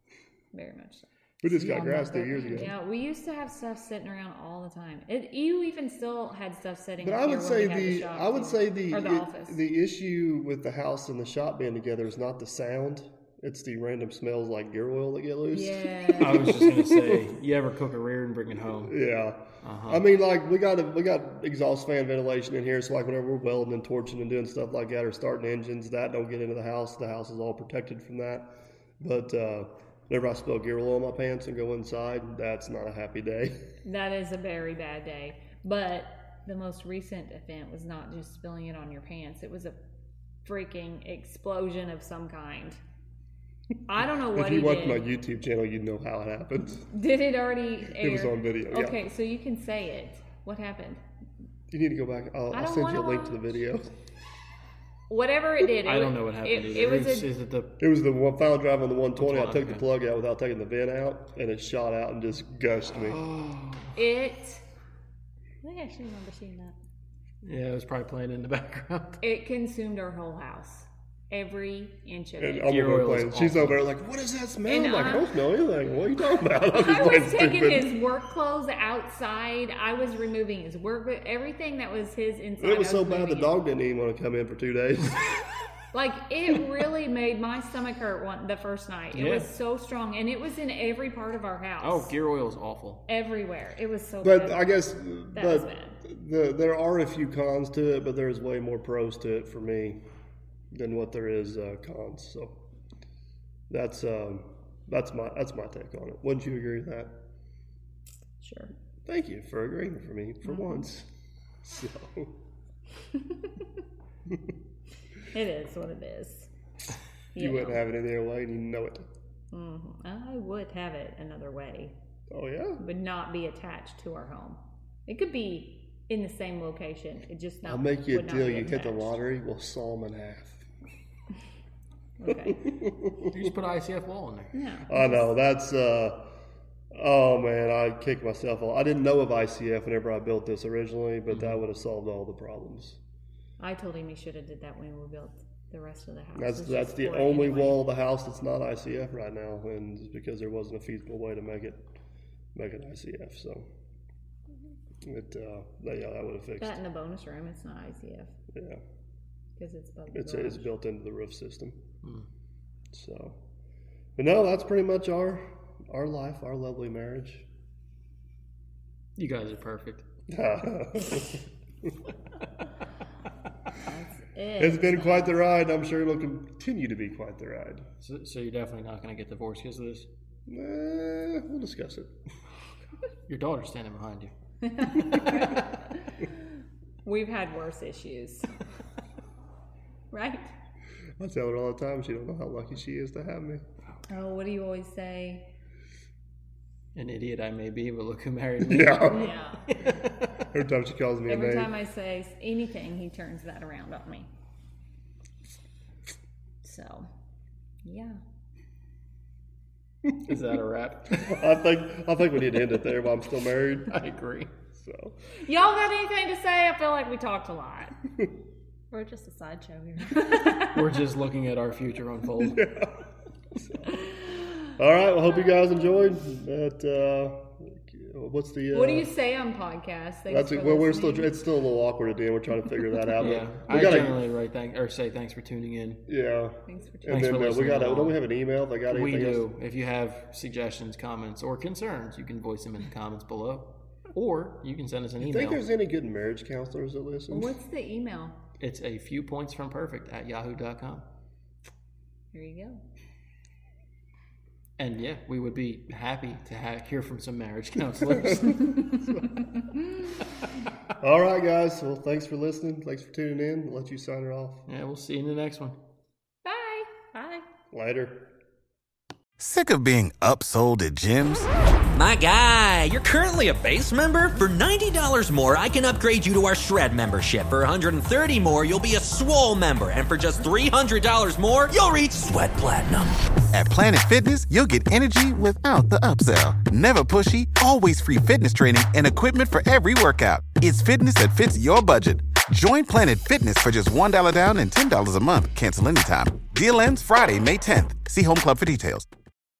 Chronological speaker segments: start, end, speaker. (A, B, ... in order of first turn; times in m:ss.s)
0:00.5-0:09.6 A
0:01.4-0:02.7 B
0:07.0-0:17.2 B
0:15.5-0:16.5 A
0:16.2-0:19.0 C
0:18.8-0:28.5 B
0:19.6-0:20.0 C
0:29.0-0:33.6 B
0:33.8-0:39.8 A
0:40.4-0:42.8 A
0:43.9-0:45.1 A
0:44.3-0:46.9 B
0:46.9-0:51.0 A
0:47.9-0:49.0 B
0:51.7-0:53.9 B
0:52.5-0:53.6 A
0:55.1-0:57.3 A
0:55.8-0:57.8 C
0:57.8-1:03.2 B
0:59.2-0:59.8 C
1:02.9-1:04.0 C
1:03.9-1:04.6 A
1:05.6-1:06.8 D
1:07.4-1:09.2 C
1:09.2-1:12.7 A
1:12.4-1:17.9 B
1:12.7-1:13.8 C
1:14.7-1:15.3 A
1:16.7-1:23.5 A
1:22.6-1:25.2 B
1:25.9-1:32.1 A
1:29.1-1:29.5 C
1:31.8-1:33.0 C
1:33.1-1:36.0 A
1:34.2-1:40.0 B
1:40.7-1:42.6 B
1:43.7-1:47.1 B
1:48.4-1:48.7 A
1:49.0-1:51.1 B
1:50.4-1:50.8 A
1:51.6-1:52.3 B
1:53.1-1:53.6 A
1:55.3-1:56.5 A
1:57.3-1:57.8 A
1:57.4-1:59.1 B
1:59.5-2:01.9 A
2:02.3-2:02.8 B
2:02.8-2:09.2 A
2:07.6-2:10.6 B
2:12.2-2:12.6 A
2:12.3-2:13.3 B
2:13.3-2:14.5 C
2:14.5-2:15.3 A
2:14.9-2:16.3 B
2:16.9-2:23.0 B
2:21.3-2:21.6 C
2:23.6-2:27.9 A
2:26.3-2:31.8 B
2:32.5-2:33.7 B
2:35.0-2:36.8 B
2:36.6-2:38.3 A
2:38.5-2:38.8 B
2:39.6-2:40.7 A
2:40.1-2:41.8 B
2:42.9-2:43.4 B
2:44.2-2:47.4 B
2:49.2-2:50.0 C
2:50.3-2:51.9 B
2:53.8-2:55.4 A
2:54.6-2:57.8 B
2:58.0-3:00.1 C
3:00.5-3:02.1 B
3:03.3-3:04.3 C
3:04.6-3:06.3 A
3:07.0-3:08.5 A
3:10.1-3:10.5 A
3:11.2-3:13.6 B
3:14.1-3:15.5 A
3:16.9-3:20.4 C
3:18.6-3:19.3 B
3:19.0-3:19.6 A
3:20.5-3:21.7 B
3:21.3-3:24.3 A
3:26.6-3:27.1 A
3:27.8-3:28.2 A
3:30.2-3:31.4 C
3:31.2-3:33.9 B
3:33.9-3:34.5 C
3:34.7-3:35.2 B
3:35.4-3:37.9 A
3:38.9-3:40.4 D
3:40.1-3:40.8 A
3:40.7-3:42.6 C
3:42.4-3:43.0 B
3:43.6-3:43.9 B
3:44.8-3:49.1 B
3:48.7-3:51.3 A
3:50.3-3:54.2 B
3:53.2-3:56.0 C
3:56.1-3:59.4 B
3:56.7-3:57.2 A
3:57.1-3:58.2 C
3:58.9-4:05.6 C
4:05.2-4:07.5 B
4:07.3-4:08.4 A
4:08.6-4:11.0 C
4:12.3-4:12.8 A
4:14.8-4:18.9 C
4:18.2-4:19.2 B
4:21.0-4:24.6 B
4:24.7-4:25.8 C
4:26.4-4:27.0 A
4:27.1-4:27.4 D
4:27.7-4:28.3 B
4:29.4-4:31.5 E
4:31.9-4:43.1 F
4:43.5-4:59.1 E